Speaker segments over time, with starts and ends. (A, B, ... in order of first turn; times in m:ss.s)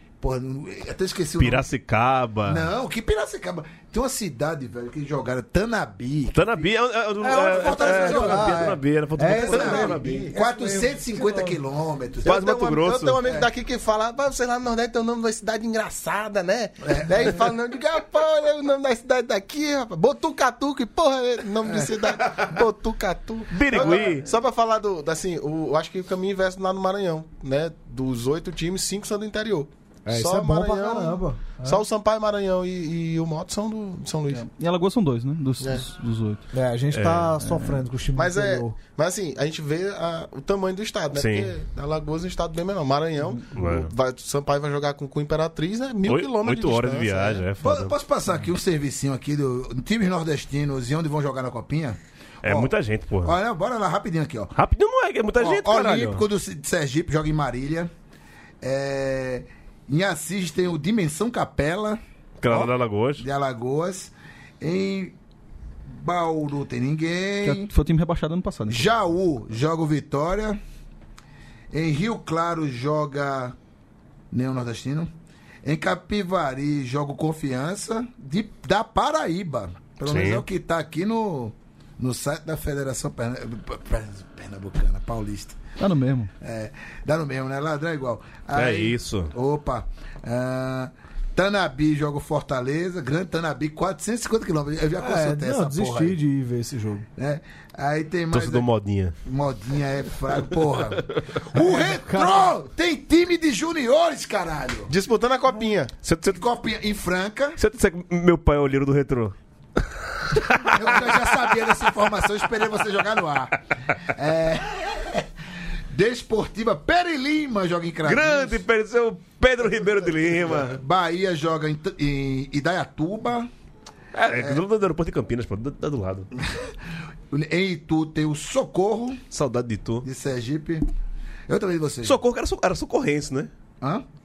0:00.2-0:01.7 A
0:01.4-0:02.7 B
0:02.5-0:06.7 A
0:06.3-0:10.3 B
0:07.2-0:08.7 A
0:07.2-0:11.6 C
0:09.4-0:12.4 A
0:12.2-0:34.5 D
0:12.2-0:13.2 B
0:13.2-0:13.5 A
0:16.8-0:17.5 A
0:21.6-0:22.4 A
0:23.5-0:24.3 B
0:23.7-0:24.0 A
0:30.1-0:31.8 C
0:34.3-0:36.4 E
0:35.6-0:35.9 D
0:36.5-0:38.8 C
0:36.9-0:37.3 B
0:37.4-0:37.8 E
0:38.2-0:47.4 D
0:41.1-0:41.5 B
0:43.6-0:43.9 B
0:46.0-0:47.9 B
0:47.6-0:54.6 A
0:52.4-0:53.4 B
0:54.6-0:56.2 B
0:55.4-0:57.9 A
0:58.6-1:05.2 A
1:02.4-1:03.3 B
1:05.9-1:07.7 A
1:07.4-1:08.9 E
1:08.7-1:10.6 A
1:11.7-1:13.6 A
1:14.3-1:15.1 A
1:15.6-1:25.6 A
1:20.0-1:20.4 B
1:25.8-1:26.3 E
1:26.4-1:36.2 A
1:28.5-1:29.3 B
1:35.0-1:37.1 C
1:37.2-1:38.7 A
1:38.3-1:39.2 B
1:39.2-1:44.9 A
1:41.6-1:42.5 C
1:44.9-1:46.0 D
1:46.1-1:46.3 B
1:46.3-1:47.6 A
1:47.6-1:49.4 B
1:50.3-1:51.3 B
1:50.6-1:55.3 A
1:55.9-1:58.6 A
1:58.0-2:00.8 B
2:00.4-2:03.5 A
2:04.2-2:06.3 B
2:04.3-2:04.6 A
2:06.4-2:06.7 A
2:07.3-2:09.2 A
2:09.3-2:10.1 B
2:10.0-2:10.9 A
2:11.5-2:12.2 A
2:12.0-2:13.5 B